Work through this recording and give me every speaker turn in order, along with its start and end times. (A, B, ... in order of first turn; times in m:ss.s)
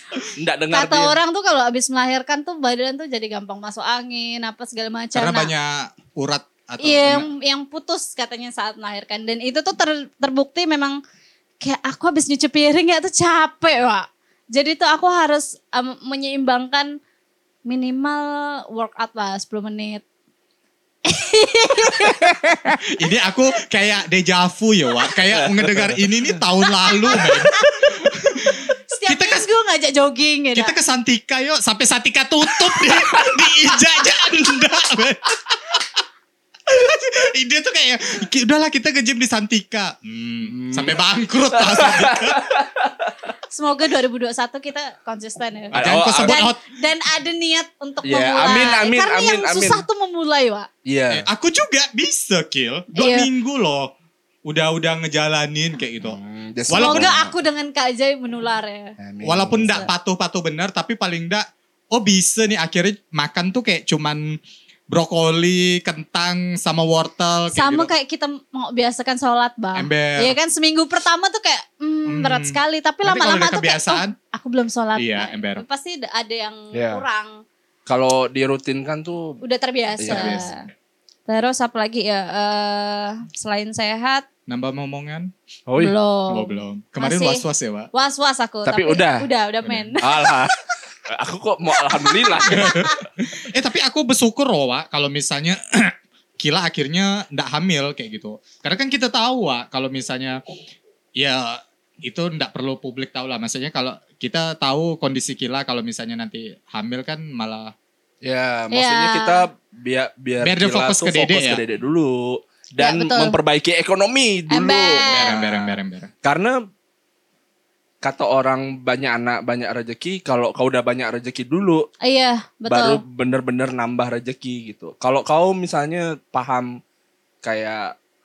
0:00.4-0:01.2 A
0:00.7-0:05.5 B
0:05.2-0:07.3 C
0:06.8-0:11.0 B
0:11.6-0:17.0 B
0:17.7-0:20.0 B
0:21.1-0:22.8 B
0:22.9-0:29.4 C
0:25.3-0:26.4 A
0:26.9-0:28.0 B
0:28.9-0:30.7 B
0:30.6-0:35.8 C
0:36.7-0:42.5 C
0:40.5-0:43.3 A
0:43.5-0:50.7 B
0:45.7-0:46.4 A
0:45.7-0:46.6 C
0:48.0-0:49.8 A
0:50.8-0:51.3 A
0:51.1-0:53.9 C
0:52.9-0:53.3 B
0:54.4-0:57.1 C
0:56.0-0:57.3 A
0:56.7-0:59.0 B
0:59.0-0:59.9 A
0:59.2-1:04.4 C
1:04.9-1:07.9 C
1:07.5-1:17.4 B
1:09.8-1:10.4 C
1:12.1-1:14.2 C
1:15.0-1:15.6 C
1:16.7-1:17.0 A
1:17.9-1:19.4 A
1:19.4-1:20.7 B
1:20.0-1:20.5 A
1:20.1-1:20.6 C
1:21.3-1:24.3 B
1:24.5-1:25.3 C
1:25.7-1:25.9 A
1:25.8-1:30.4 B
1:26.3-1:27.9 C
1:28.6-1:29.3 A
1:30.0-1:32.9 A
1:31.8-1:33.0 B
1:32.5-1:40.4 C
1:41.2-1:47.7 C
1:48.2-1:56.6 A
1:48.7-1:49.4 B
1:50.4-1:51.6 C
1:52.8-1:53.4 B
1:54.5-1:55.4 B
1:55.1-1:56.1 C
1:58.0-2:01.9 A
2:02.0-2:03.0 B
2:02.7-2:06.8 A
2:07.4-2:08.0 A